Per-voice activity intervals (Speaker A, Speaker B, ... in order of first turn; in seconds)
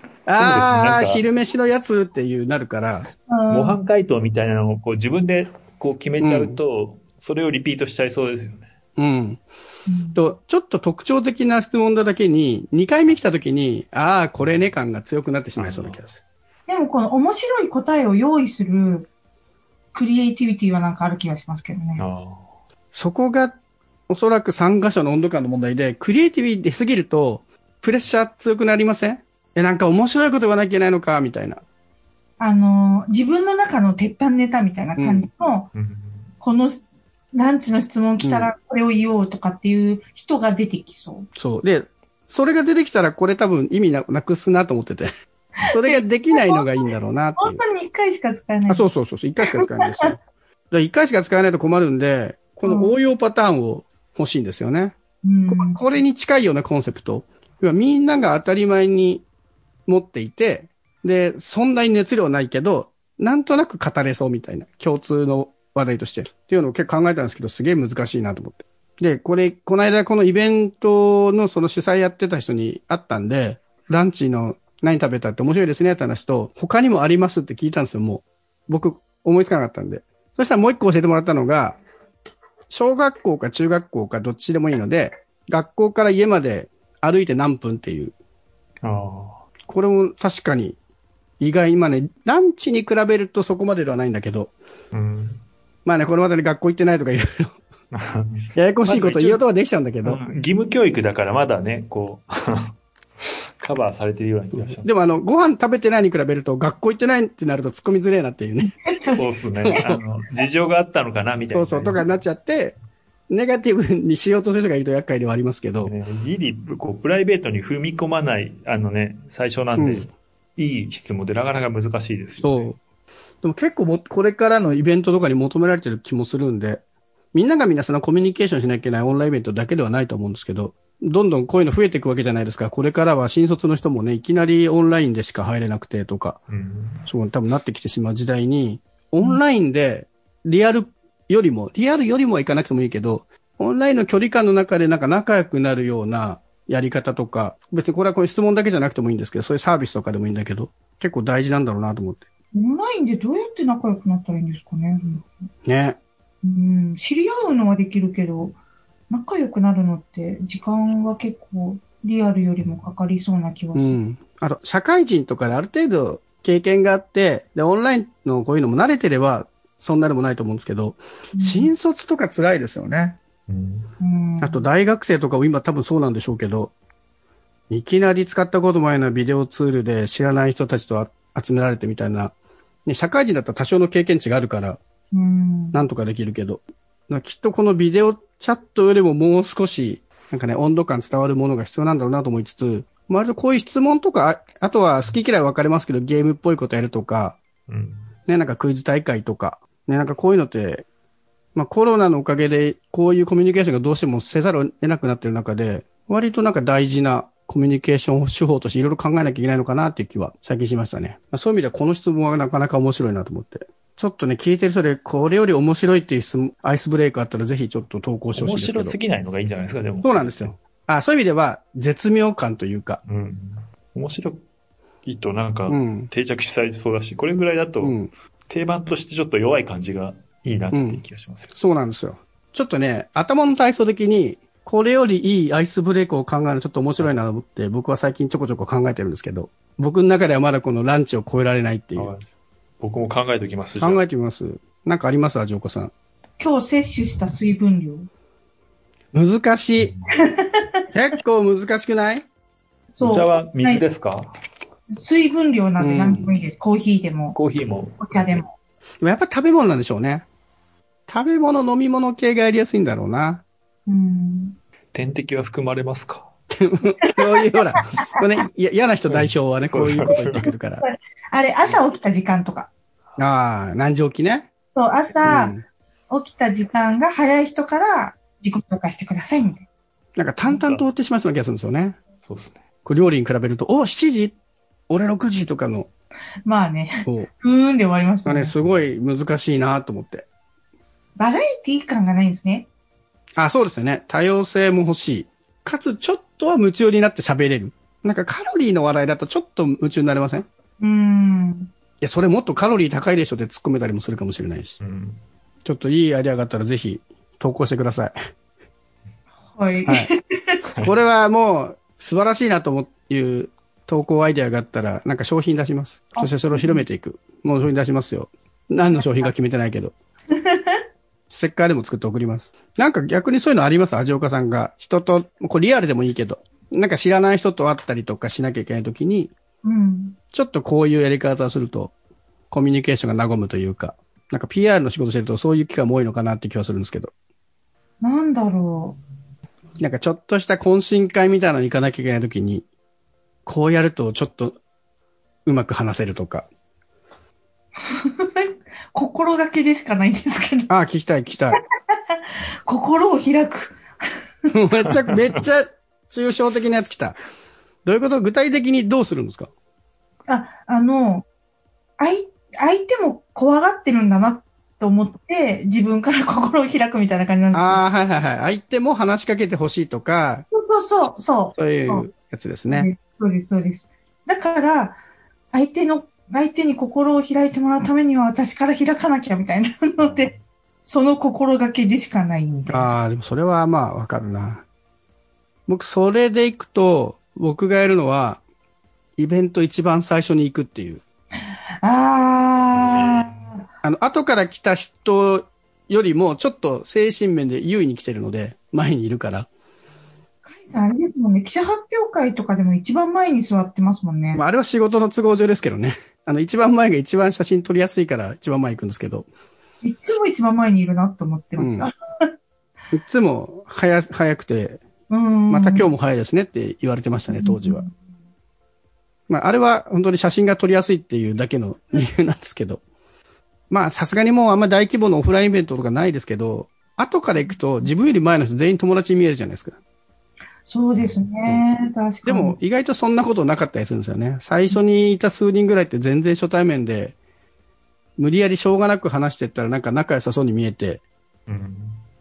Speaker A: 0.3-3.1, 6.2-6.6, 9.0-9.4, 10.2-16.2, 22.9-23.6, 24.1-31.6, 35.0-35.3, 38.2-38.5, 41.4-45.1, 45.7-47.6, 48.7-50.2, 50.7-55.0, 55.5-59.3, 59.9-81.8, 82.7-88.1, 89.7-90.8, 91.4-94.5, 95.8-97.6, 98.6-100.2, 104.5-108.7, 109.7-110.0, 111.5-112.8, 113.3-115.9, 119.8-120.1, 122.4-122.8, 123.4-126.8, 127.3-136.4, 137.1-152.2, 155.7-156.0, 163.8-173.2, 174.4-176.7, 177.7-182.3, 182.9-184.8, 185.7-197.4, 198.3-200.9, 201.6-219.0, 220.0-223.0, 225.7-226.1, 227.8-228.1, 230.7-231.0, 231.6-242.1, 243.8-245.9, 249.1-249.9, 250.9-252.3, 255.8-256.4, 259.0-260.3, 261.1-263.4, 266.5-270.9, 273.2-274.5, 275.2-275.6, 280.2-282.0, 282.9-284.4, 284.9-285.9, 287.0-287.3, 288.3-290.3, 293.4-300.5, 302.0-304.8, 305.6-308.1, 310.8-319.9, 321.3-329.3, 330.3-331.9, 332.5-337.1, 339.8-342.7, 343.5-344.6, 345.5-346.5, 350.7-351.6, 354.5-357.2, 357.9-359.5, 367.5-370.5, 371.5-372.9, 382.7-384.6, 385.7-388.4, 389.2-391.0, 393.8-399.5, 404.3-409.3, 411.6-411.9, 412.9-414.8, 415.5-417.8, 419.3-422.8, 423.7-429.8, 432.2-437.1, 438.2-441.0
Speaker B: 0.4-1.2, 3.5-8.7, 14.4-14.7, 15.6-16.0, 22.0-22.5, 35.8-36.3, 88.8-89.4, 94.9-95.4, 97.9-99.4, 100.0-104.9, 109.2-112.0, 115.8-122.7, 136.5-137.1, 173.5-173.9, 197.7-198.1, 218.3-220.6, 223.1-224.4, 225.1-231.5, 242.0-242.3, 242.8-244.0, 249.8-250.1, 253.0-254.3, 257.4-258.4, 264.9-266.3, 269.1-270.5, 280.4-280.9, 282.2-282.6, 304.8-305.2, 310.6-310.9, 380.0-380.4, 392.7-393.5, 441.5-442.0
Speaker C: 3.3-3.8, 9.9-10.2, 16.7-19.1, 19.9-22.1, 32.4-35.7, 36.4-41.3, 45.7-46.6, 47.4-48.9, 49.5-50.1, 52.6-53.0, 55.2-55.8, 108.9-109.2, 152.5-155.3, 156.4-158.6, 159.1-164.0, 171.3-171.7, 174.0-174.7, 185.1-185.9, 246.4-248.1, 250.1-250.8, 252.9-253.8, 254.9-257.4, 258.0-258.5, 263.9-264.6, 267.8-268.2, 270.1-272.7, 274.8-275.6, 276.1-279.6, 286.4-288.6, 291.2-292.7, 300.8-301.7, 309.5-310.6, 316.1-316.9, 318.9-319.3, 320.3-320.8, 329.6-330.2, 338.0-339.0, 347.8-350.7, 351.6-353.8, 360.3-361.2, 362.0-367.8, 370.5-372.1, 372.7-375.0, 375.5-380.3, 380.8-383.0, 391.8-393.6, 400.5-404.4, 409.8-412.3, 415.1-415.9, 417.3-417.9, 427.5-427.9, 430.7-432.6